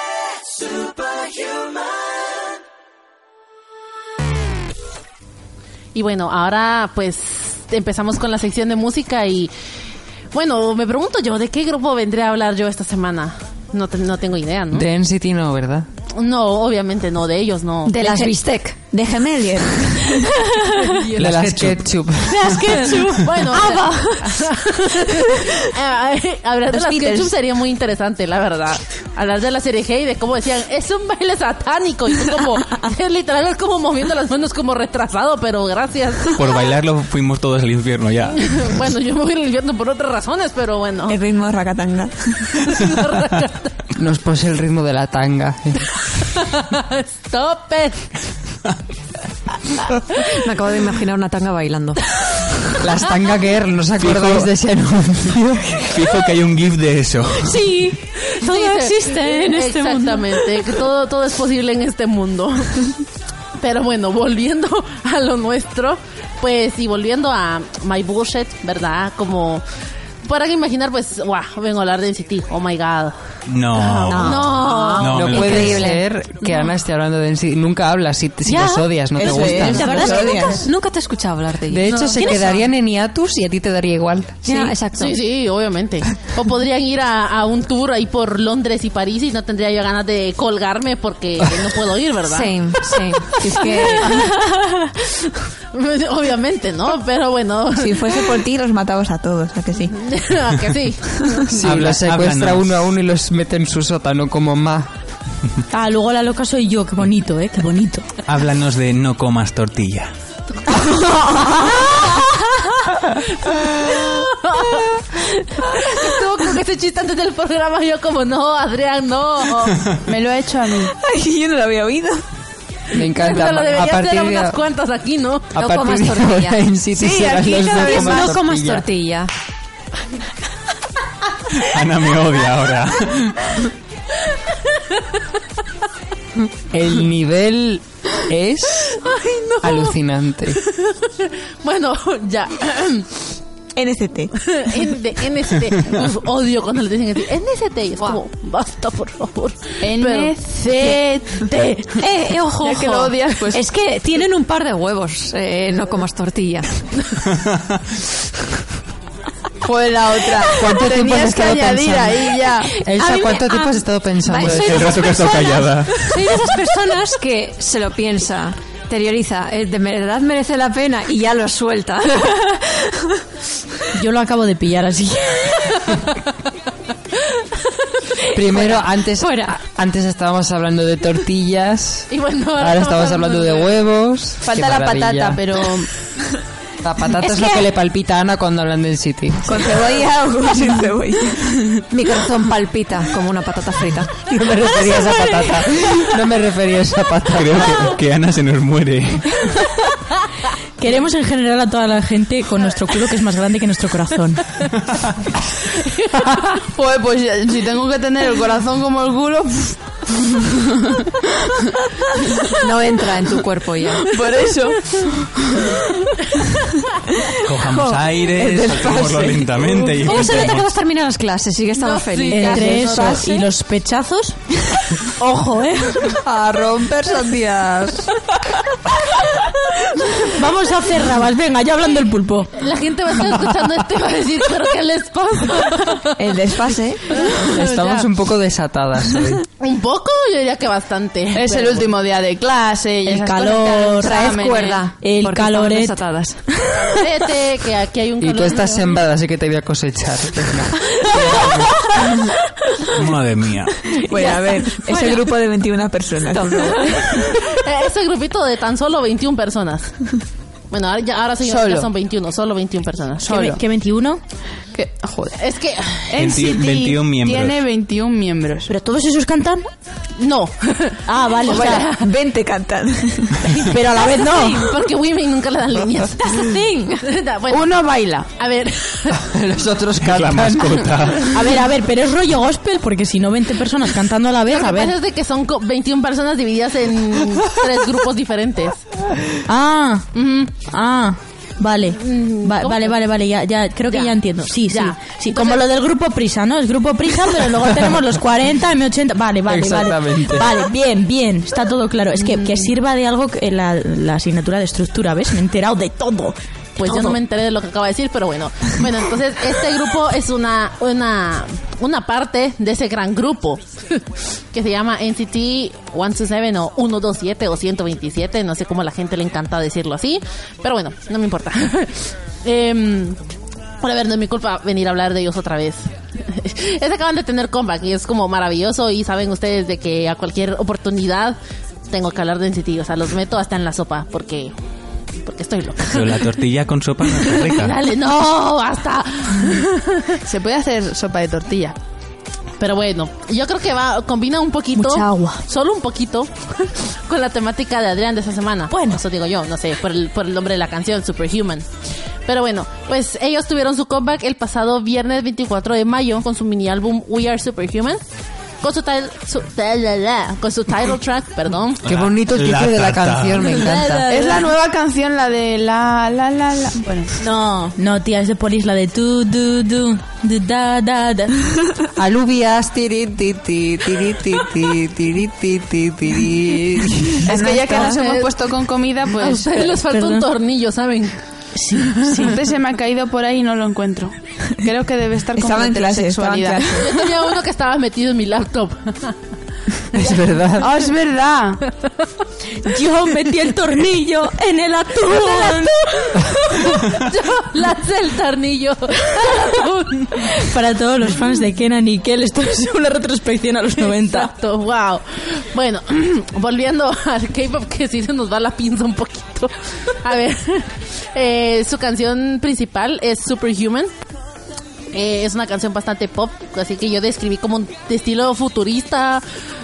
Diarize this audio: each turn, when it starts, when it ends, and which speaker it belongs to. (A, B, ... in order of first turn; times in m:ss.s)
0:05.9-0:09.5 A
0:10.3-0:14.8 A
0:14.7-0:15.9 B
0:16.1-0:18.0 A
0:17.8-0:18.8 C
0:17.9-0:20.3 D
0:20.6-0:20.9 C
0:20.9-0:21.2 A
0:21.1-0:21.8 E
0:21.2-0:22.4 B
0:22.4-0:36.5 A
0:22.4-0:22.7 E
0:22.4-0:23.8 C
0:23.7-0:24.2 D
0:26.7-0:27.3 D
0:36.3-0:38.7 E
0:38.3-0:41.2 A
0:41.1-0:42.5 D
0:42.6-0:43.8 A
0:44.0-0:45.9 B
0:46.3-0:48.1 A
0:50.2-0:52.1 C
0:52.8-0:55.9 B
0:54.0-0:54.5 E
0:55.8-0:57.8 E
0:57.4-1:00.6 C
0:58.4-1:03.0 A
1:03.6-1:09.6 A
1:10.2-1:13.1 A
1:13.5-1:15.9 E
1:13.8-1:15.8 A
1:14.1-1:16.0 C
1:15.1-1:20.3 B
1:19.2-1:20.6 D
1:19.3-1:22.6 C
1:19.9-1:20.2 F
1:21.7-1:24.6 B
1:21.9-1:22.6 A
1:24.4-1:25.2 C
1:25.0-1:34.3 A
1:32.2-1:34.2 C
1:33.4-1:34.3 D
1:35.7-1:38.4 A
1:37.7-1:39.9 D
1:39.9-1:41.6 A
1:41.5-1:44.9 B
1:41.6-1:42.7 E
1:45.7-1:48.0 F
1:48.2-1:50.1 E
1:50.8-1:52.0 D
1:53.4-1:59.9 A
2:00.0-2:00.9 G
2:01.0-2:02.2 D
2:02.9-2:04.6 B
2:03.0-2:05.5 A
2:05.5-2:08.8 B
2:05.6-2:09.3 C
2:11.5-2:13.5 E
2:16.7-2:19.0 B
2:19.0-2:19.9 A
2:19.6-2:20.6 B
2:20.6-2:23.1 A
2:23.7-2:24.3 D
2:24.4-2:31.0 A
2:29.8-2:31.8 G
2:32.0-2:36.8 C
2:32.6-2:33.6 G
2:39.6-2:42.8 G
2:40.5-2:45.0 B
2:42.9-2:53.1 C
2:44.4-2:46.2 E
2:53.9-2:55.9 F
2:58.3-3:05.4 B
2:58.5-2:59.6 C
3:02.1-3:03.8 A
3:04.4-3:05.9 G
3:06.8-3:09.7 B
3:07.3-3:07.6 C
3:09.4-3:11.8 D
3:11.9-3:14.1 C
3:14.2-3:18.0 B
3:17.3-3:19.5 E
3:20.8-3:24.4 F
3:26.6-3:31.5 G
3:32.5-3:34.1 C
3:34.0-3:35.8 G
3:37.4-3:40.7 E
3:37.7-3:39.5 D
3:39.9-3:43.0 C
3:41.8-3:43.3 A
3:42.3-3:44.4 F
3:45.1-3:46.2 F
3:46.2-3:48.1 B
3:50.2-3:52.5 F
3:52.6-3:56.1 A
3:56.2-3:57.4 D
3:57.1-3:58.1 A
3:57.4-3:59.4 B
3:59.6-4:01.9 A
4:01.3-4:04.8 G
4:03.0-4:04.4 F
4:04.0-4:06.4 C
4:04.9-4:06.0 F
4:06.7-4:09.0 A
4:08.2-4:11.8 B
4:12.9-4:13.9 E
4:13.9-4:17.3 D
4:16.3-4:17.0 C
4:16.9-4:20.1 A
4:20.7-4:23.4 A
4:21.4-4:21.9 G
4:23.2-4:23.6 G
4:23.3-4:24.2 F
4:24.7-4:25.4 G
4:25.4-4:26.2 A
4:26.1-4:28.7 G
4:26.2-4:27.6 E
4:28.7-4:29.6 F
4:30.2-4:32.1 A
4:31.0-4:31.9 F
4:31.5-4:33.5 D
4:33.4-4:36.5 A
4:33.6-4:34.7 F
4:36.2-4:37.0 C
4:37.0-4:37.8 A
4:37.5-4:38.3 G
4:38.4-4:39.2 A
4:39.2-4:41.2 B
4:40.0-4:41.4 E
4:41.3-4:45.0 F
4:44.5-4:48.8 A
4:49.4-4:50.1 F
4:50.1-4:50.5 A
4:50.6-5:07.2 F
4:51.9-4:53.0 A
4:53.9-4:55.6 A
4:59.5-5:00.5 B
5:02.2-5:02.7 A
5:06.8-5:23.2 A
5:23.8-5:31.4 A
5:31.9-5:34.5 A
5:35.2-5:36.2 A
5:35.8-5:37.8 E
5:37.2-5:40.2 A
5:40.2-5:41.8 G
5:42.6-5:51.6 A
5:44.7-5:45.4 F
5:48.7-5:49.0 F
5:52.2-5:58.0 A
5:58.6-6:01.8 A
6:01.8-6:03.6 E
6:01.8-6:04.1 B
6:03.5-6:04.5 F
6:04.0-6:07.1 G
6:07.2-6:11.5 F
6:12.0-6:17.3 B
6:17.2-6:19.5 G
6:17.3-6:18.2 D
6:17.7-6:18.3 A
6:19.2-6:21.2 A
6:19.5-6:20.3 F
6:21.5-6:22.4 F
6:22.2-6:26.8 G
6:25.3-6:27.0 D
6:26.8-6:29.2 A
6:29.9-6:30.7 B
6:30.6-6:31.6 G
6:32.6-6:36.8 F
6:35.1-6:35.7 A
6:36.5-6:40.3 A
6:39.1-6:39.6 F
6:40.2-6:44.3 F
6:43.8-6:53.9 A
6:54.9-6:59.2 A